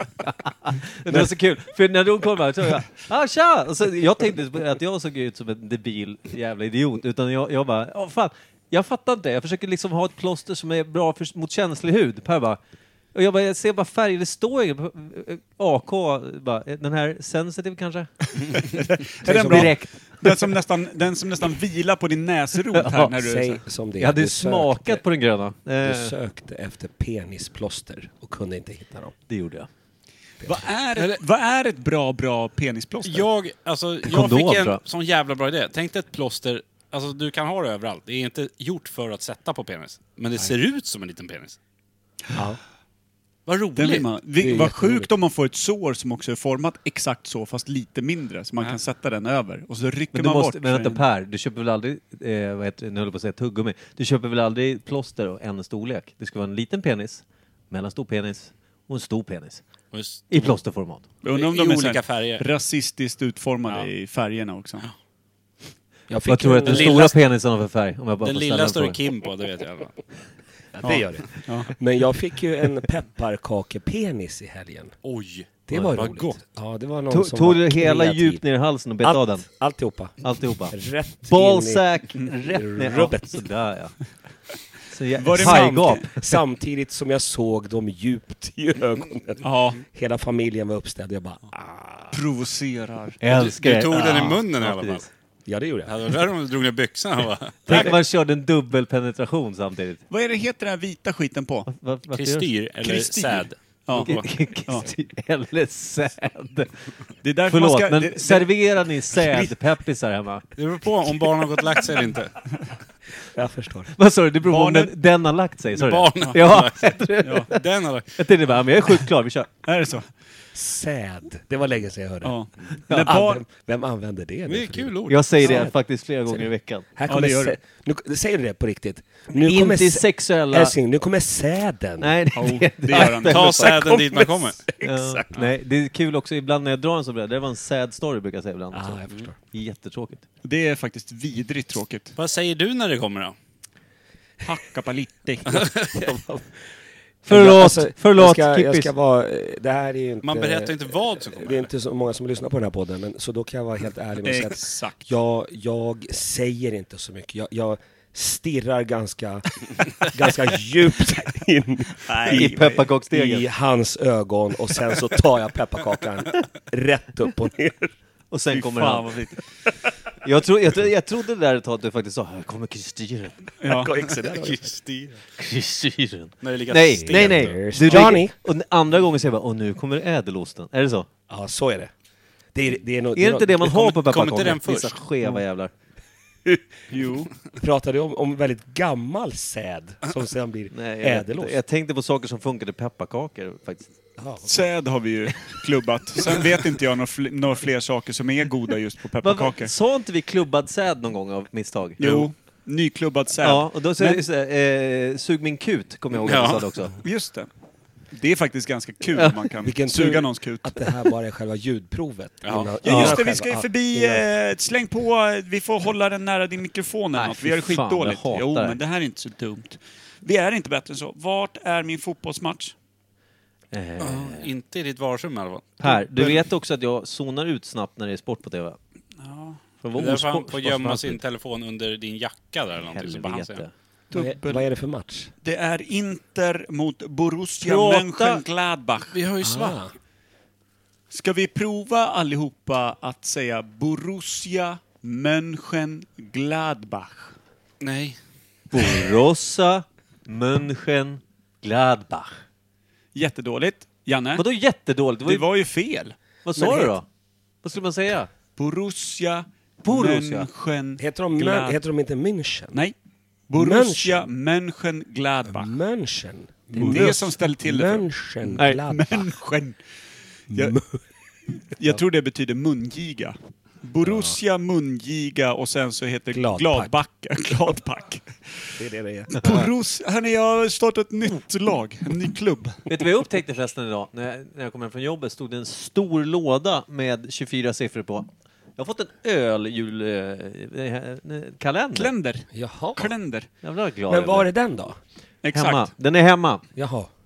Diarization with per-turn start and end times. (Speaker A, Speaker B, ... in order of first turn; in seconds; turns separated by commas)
Speaker A: 0.2-12.6, Speaker A: 13.1-18.1, Speaker B: 18.4-23.6, Speaker A: 19.2-20.5, Speaker C: 19.2-19.7, Speaker A: 22.7-23.1, Speaker C: 23.1-25.0, Speaker A: 24.0-26.1, Speaker C: 25.8-29.1, Speaker A: 29.3-29.7, Speaker C: 30.4-30.7, Speaker B: 30.4-33.3, Speaker D: 33.0-41.6, Speaker A: 34.0-34.8, Speaker C: 42.3-42.6, Speaker D: 43.5-44.1, Speaker B: 43.8-51.0, Speaker C: 44.4-45.1, Speaker A: 50.1-59.6, Speaker D: 59.9-60.5, Speaker A: 60.3-61.0, Speaker B: 61.2-64.9, Speaker D: 61.3-62.4, Speaker C: 66.1-67.1, Speaker A: 66.3-69.0, Speaker D: 66.6-67.1, Speaker D: 68.2-70.0, Speaker C: 70.8-74.9, Speaker B: 70.8-71.7, Speaker D: 75.0-76.4, Speaker C: 75.7-78.4, Speaker A: 77.1-79.5, Speaker C: 79.0-81.8, Speaker A: 80.2-80.8, Speaker A: 81.3-83.9, Speaker C: 82.3-83.4, Speaker A: 84.9-86.4, Speaker B: 85.2-86.1, Speaker C: 85.3-92.2, Speaker B: 89.4-89.8, Speaker B: 92.1-93.2, Speaker A: 93.2-95.1, Speaker D: 93.3-95.1, Speaker C: 95.5-96.1, Speaker D: 95.8-97.9, Speaker A: 97.7-100.0, Speaker B: 100.1-101.7, Speaker A: 101.7-102.5, Speaker D: 102.2-104.3, Speaker B: 102.8-104.8, Speaker A: 104.0-106.7, Speaker B: 107.2-108.5, Speaker A: 107.5-110.5, Speaker D: 110.6-112.4, Speaker C: 113.3-113.9, Speaker A: 114.0-117.6, Speaker B: 114.5-114.9, Speaker D: 115.7-118.2, Speaker B: 117.2-117.5, Speaker A: 118.2-119.5, Speaker B: 119.7-120.1, Speaker C: 120.5-125.7, Speaker B: 122.2-123.4, Speaker A: 122.9-123.1, Speaker D: 124.5-125.3, Speaker A: 125.1-126.9, Speaker C: 126.3-132.2, Speaker B: 127.1-127.6, Speaker A: 129.4-130.7, Speaker A: 132.0-133.9, Speaker B: 132.3-133.7, Speaker D: 133.0-134.6, Speaker C: 133.6-135.5, Speaker A: 134.8-140.2, Speaker C: 138.7-139.3, Speaker B: 140.4-142.2, Speaker D: 142.2-143.3, Speaker B: 144.4-145.7, Speaker C: 145.6-146.5, Speaker C: 147.2-167.9, Speaker A: 147.3-148.9, Speaker D: 150.2-151.7, Speaker B: 154.2-155.0, Speaker B: 162.0-162.9, Speaker A: 162.3-163.5, Speaker A: 168.3-169.1, Speaker B: 168.5-169.4, Speaker A: 170.2-173.5, Speaker B: 173.6-173.9, Speaker C: 173.7-174.7, Speaker D: 174.2-175.1, Speaker A: 175.3-181.1, Speaker D: 176.4-178.1, Speaker C: 177.0-178.3, Speaker C: 181.3-181.9, Speaker C: 182.5-183.8, Speaker A: 183.2-185.7, Speaker D: 183.6-185.0, Speaker B: 186.9-187.3, Speaker C: 187.6-191.6, Speaker A: 190.7-193.9, Speaker C: 194.2-194.6, Speaker B: 194.4-199.7, Speaker A: 199.2-202.0, Speaker B: 202.0-204.2, Speaker A: 203.4-206.9, Speaker D: 206.2-206.6, Speaker B: 207.0-207.5, Speaker B: 208.1-211.1, Speaker C: 209.6-214.2, Speaker D: 212.4-212.8, Speaker B: 212.8-222.7, Speaker A: 212.8-213.2, Speaker A: 217.2-218.8, Speaker A: 223.7-224.5, Speaker D: 224.0-225.9, Speaker A: 225.8-228.8, Speaker B: 229.2-229.6, Speaker A: 229.8-231.2, Speaker D: 230.0-233.6, Speaker A: 232.7-233.7, Speaker B: 234.1-234.7, Speaker C: 234.1-235.3, Speaker B: 235.4-239.2, Speaker A: 237.6-238.4, Speaker D: 239.1-239.8, Speaker C: 239.4-239.9, Speaker B: 241.1-247.3, Speaker D: 247.8-248.2, Speaker A: 248.7-252.3, Speaker B: 253.2-254.4, Speaker A: 254.4-255.4, Speaker B: 255.3-256.9, Speaker A: 256.4-257.1, Speaker A: 257.6-258.3, Speaker B: 258.6-261.8, Speaker A: 259.8-260.5, Speaker C: 261.0-262.8, Speaker B: 263.5-265.7, Speaker C: 263.6-264.3, Speaker C: 265.5-269.4, Speaker B: 266.8-269.8, Speaker B: 270.5-270.8, Speaker C: 270.5-271.0, Speaker B: 271.7-282.9, Speaker C: 274.0-274.4, Speaker C: 276.3-276.9, Speaker C: 278.8-279.6, Speaker A: 282.9-292.1, Speaker B: 291.9-293.5, Speaker C: 292.5-293.1, Speaker A: 293.6-294.5, Speaker C: 294.1-295.0, Speaker B: 295.4-295.9, Speaker A: 295.5-296.6, Speaker C: 296.8-297.1